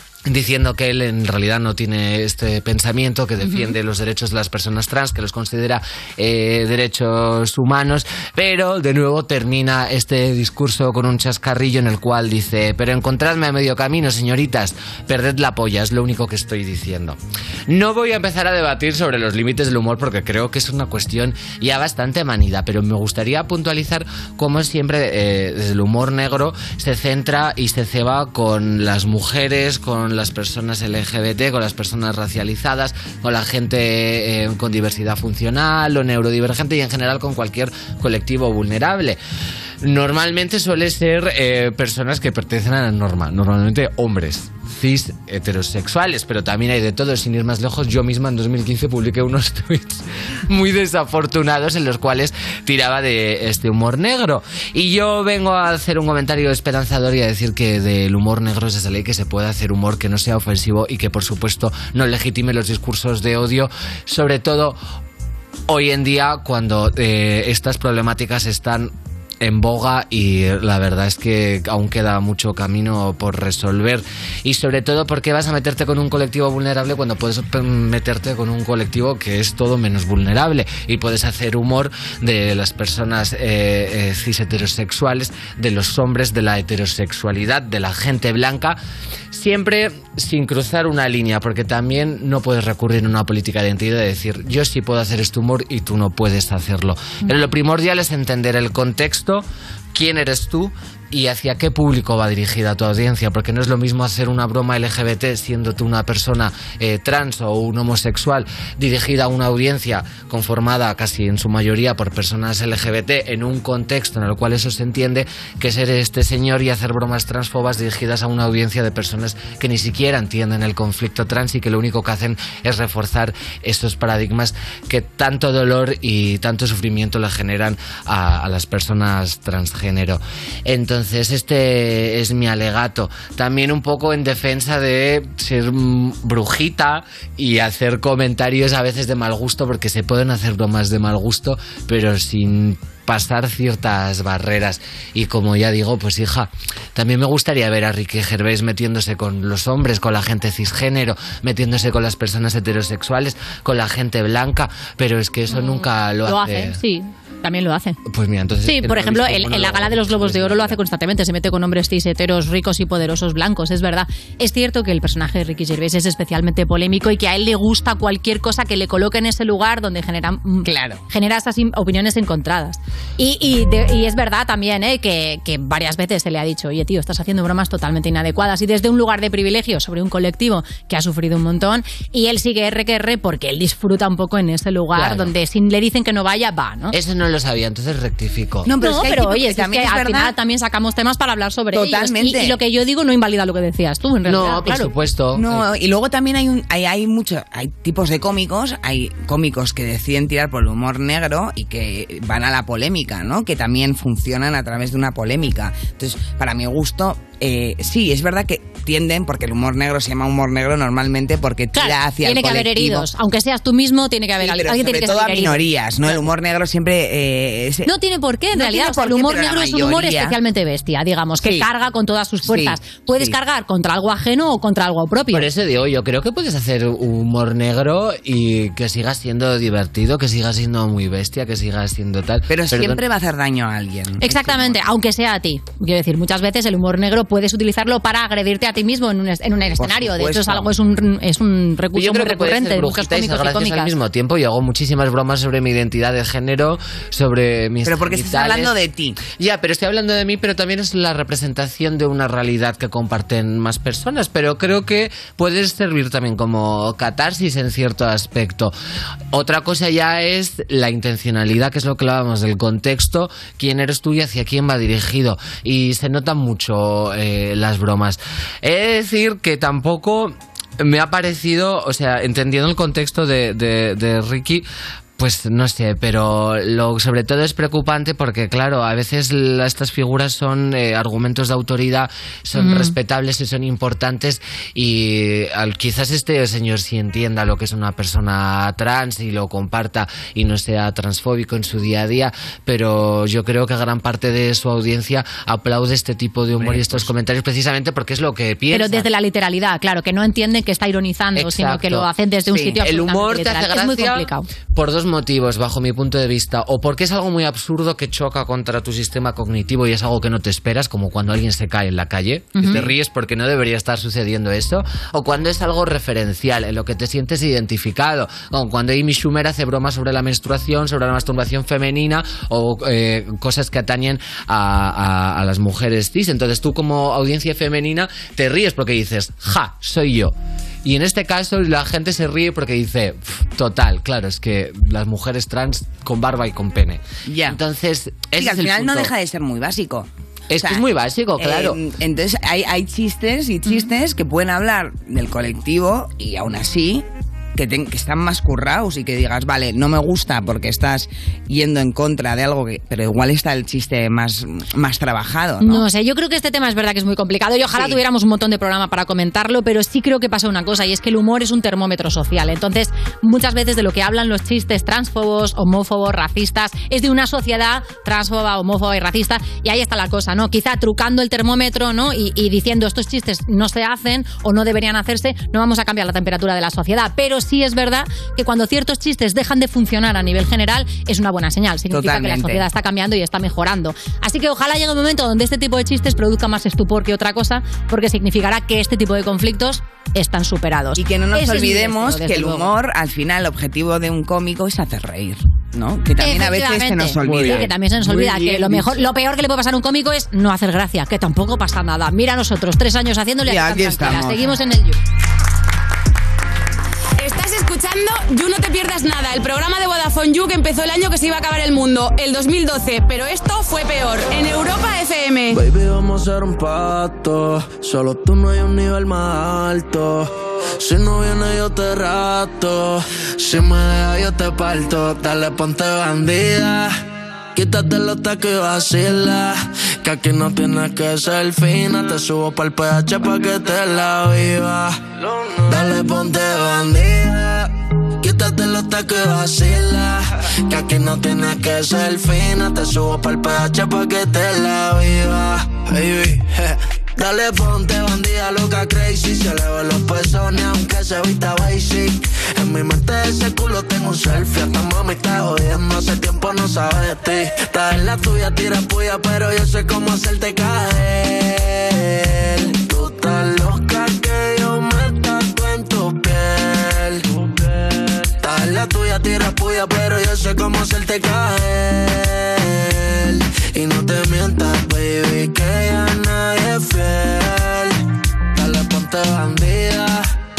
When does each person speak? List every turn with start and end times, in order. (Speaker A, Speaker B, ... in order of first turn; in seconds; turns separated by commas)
Speaker A: 0.3-17.2, Speaker B: 3.4-3.7, Speaker A: 17.7-39.2, Speaker A: 39.8-64.8, Speaker A: 65.7-88.8, Speaker A: 89.3-156.8, Speaker B: 155.5-158.0, Speaker A: 158.1-160.8, Speaker B: 158.7-187.0, Speaker C: 170.6-171.0, Speaker A: 184.9-185.3, Speaker A: 186.9-188.7, Speaker C: 188.7-190.3, Speaker B: 188.8-194.9, Speaker C: 191.7-192.6, Speaker A: 194.2-195.7, Speaker C: 195.3-213.1, Speaker B: 211.7-216.2, Speaker C: 214.4-217.9, Speaker B: 217.8-225.5, Speaker C: 218.5-220.4, Speaker C: 221.4-221.7, Speaker C: 222.5-223.4, Speaker A: 225.3-233.0, Speaker C: 232.5-234.8, Speaker B: 234.2-244.0, Speaker C: 239.8-240.7, Speaker A: 241.9-248.8, Speaker C: 247.8-249.2, Speaker A: 249.3-258.7, Speaker A: 259.3-299.1, Speaker B: 282.5-282.9, Speaker B: 298.7-304.5, Speaker A: 301.4-302.1, Speaker C: 302.5-302.8, Speaker A: 302.8-339.1, Speaker B: 312.6-312.9, Speaker C: 337.3-337.6, Speaker C: 338.4-340.9, Speaker A: 340.5-341.8, Speaker C: 341.4-355.9, Speaker B: 355.6-392.7, Speaker C: 357.7-358.0, Speaker C: 381.9-382.7, Speaker C: 390.9-399.0, Speaker B: 396.2-405.0, Speaker A: 397.2-397.7, Speaker C: 403.5-404.6, Speaker D: 407.2-415.6, Speaker E: 415.5-426.9, Speaker E: 427.6-467.7, Speaker E: 468.4-478.0, Speaker E: 478.5-480.3